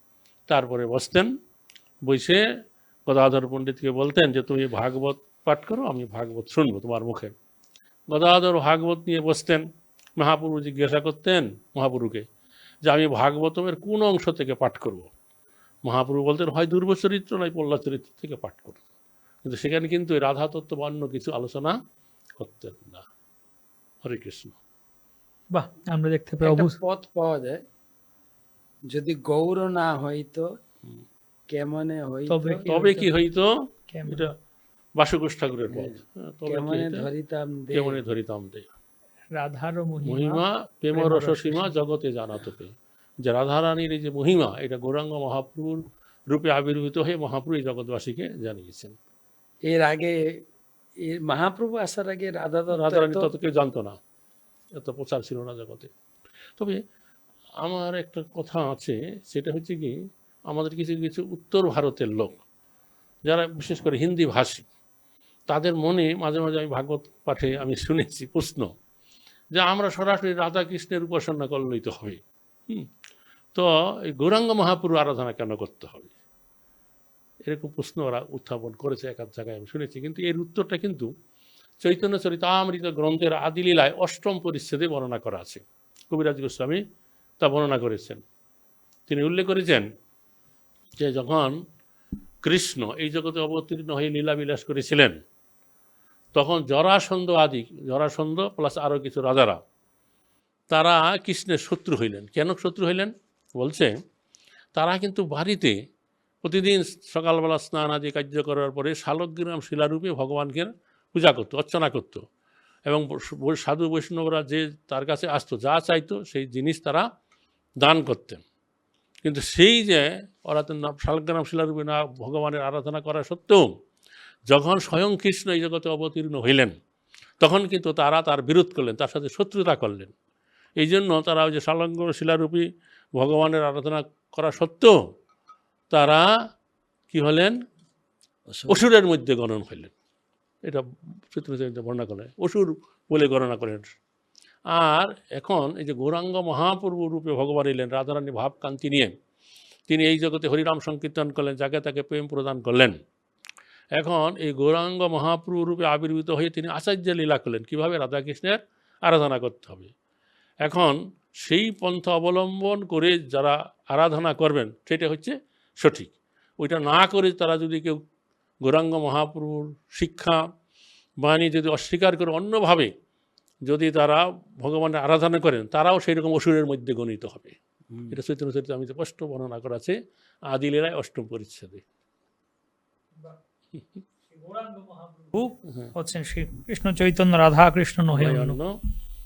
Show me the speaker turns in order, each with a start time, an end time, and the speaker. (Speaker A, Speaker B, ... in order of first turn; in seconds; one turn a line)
Speaker A: 0.5-1.3
Speaker A: 2.0-2.4
Speaker A: 3.1-7.3
Speaker A: 8.1-9.6
Speaker A: 10.2-12.2
Speaker A: 12.9-15.1
Speaker A: 15.9-18.8
Speaker A: 19.4-21.7
Speaker A: 22.4-23.0
Speaker A: 24.0-24.6
Speaker B: 25.5-26.8
Speaker C: 26.4-27.6
Speaker C: 28.9-30.5
Speaker C: 31.5-32.7
Speaker B: 32.3-33.1
Speaker A: 32.7-33.5
Speaker B: 33.9-34.3
Speaker A: 35.0-37.1
Speaker C: 35.7-38.0
Speaker A: 37.7-38.7
Speaker B: 39.4-40.4
Speaker A: 40.0-49.0
Speaker B: 40.9-41.7
Speaker C: 49.7-50.2
Speaker C: 51.1-53.3
Speaker A: 52.7-54.0
Speaker A: 54.8-55.9
Speaker A: 57.6-59.9
Speaker A: 60.5-62.4
Speaker A: 63.3-64.7
Speaker A: 65.5-68.7
Speaker A: 69.6-72.9
Speaker A: 73.5-76.1
Speaker A: 77.5-81.1
Speaker A: 81.8-86.8
Speaker A: 87.4-88.2
Speaker A: 89.1-89.9
Speaker A: 91.0-91.6
Speaker A: 92.4-95.2
Speaker A: 96.3-99.6
Speaker A: 100.7-103.9
Speaker A: 104.8-105.7
Speaker A: 106.4-112.2
Speaker A: 112.9-117.0
Speaker A: 117.8-118.4
Speaker A: 119.2-123.7
Speaker A: 124.5-126.7
Speaker A: 127.4-130.1
Speaker A: 130.8-132.6
Speaker A: 133.2-134.9
Speaker A: 135.9-136.2
Speaker A: 137.1-137.5
Speaker C: 138.5-138.8
Speaker A: 138.7-139.9
Speaker A: 140.7-143.9
Speaker A: 144.7-149.1
Speaker A: 149.9-153.0
Speaker A: 154.0-159.9
Speaker A: 160.7-168.0
Speaker A: 168.7-170.4
Speaker A: 171.2-172.9
Speaker A: 173.7-180.0
Speaker A: 180.5-181.8
Speaker B: 184.3-188.6
Speaker A: 188.2-188.7